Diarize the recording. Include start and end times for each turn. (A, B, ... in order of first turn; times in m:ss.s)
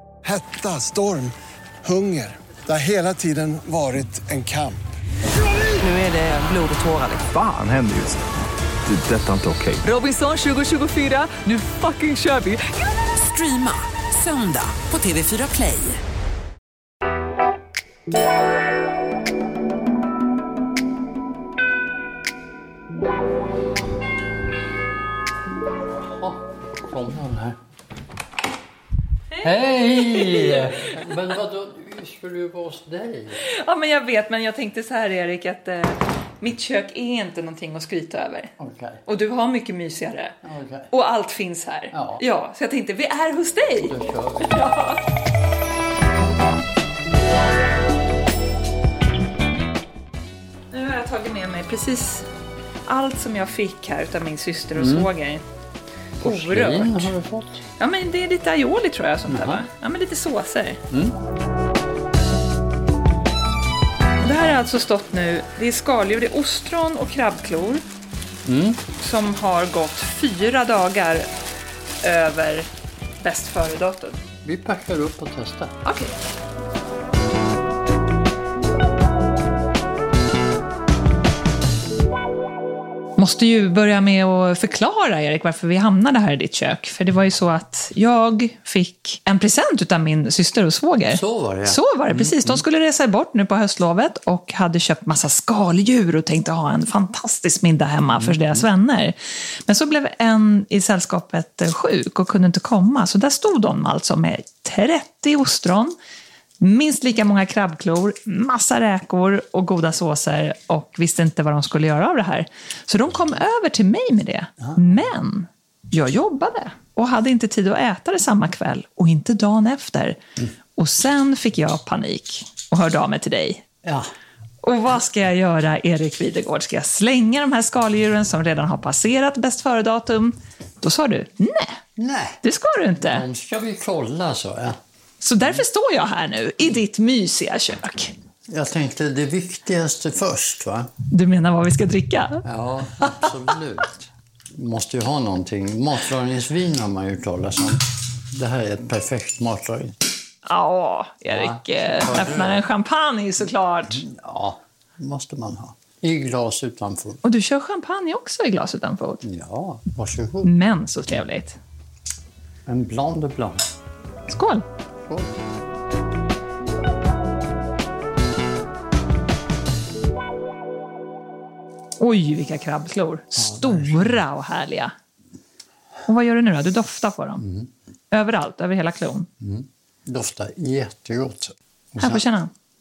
0:00.2-0:04.8 A
0:05.8-0:07.2 B
0:07.2-0:08.2 C
0:08.9-0:09.9 C
0:09.8-0:16.0 B
0:25.9-0:27.6 D
0:29.4-0:31.1 E
0:29.4-0:33.4 D
0:33.4-0:38.5 E
0:38.6-0:39.0 D
0:39.1-0:40.4 E
0:40.4-0:40.9 D
0:40.9-0:45.0 E
0:41.9-0:42.2 D
0:43.8-0:44.7 D
0:50.7-0:52.3 E
0:52.9-0:55.4 E
0:54.8-0:55.1 D
0:56.2-0:57.6 D
0:56.2-0:57.1 E
0:57.8-1:00.8 E
0:59.3-0:59.7 D
1:00.9-1:01.2 D
1:04.2-1:07.8 E
1:08.5-1:08.8 D
1:09.0-1:11.3 E
1:12.0-1:12.7 E
1:13.2-1:14.2 E
1:14.4-1:15.8 D
1:15.8-1:16.2 E
1:23.2-1:46.0 E
1:31.1-1:32.6 D
1:38.2-1:38.7 D
1:46.6-2:00.2 E
2:00.8-2:03.6 E
2:04.6-2:11.8 E
2:12.0-2:12.4 D
2:12.4-2:13.3 E
2:13.0-2:14.8 D
2:15.2-2:18.1 E
2:18.5-2:20.9 D
2:21.1-2:22.4 E
2:22.4-2:30.1 D
2:23.0-2:23.3 E
2:30.4-2:34.1 E
2:31.3-2:32.6 D
2:33.9-2:37.2 D
2:37.2-2:39.2 E
2:39.2-2:40.5 D
2:40.4-2:41.6 E
2:42.7-2:43.6 D
2:44.3-2:44.6 E
2:45.1-2:45.4 D
2:52.0-2:54.9 E
2:53.4-2:54.2 D
2:56.1-2:57.4 E
2:57.4-2:57.7 D
2:58.1-2:59.3 E
2:59.4-3:02.2 D
3:02.0-3:02.5 E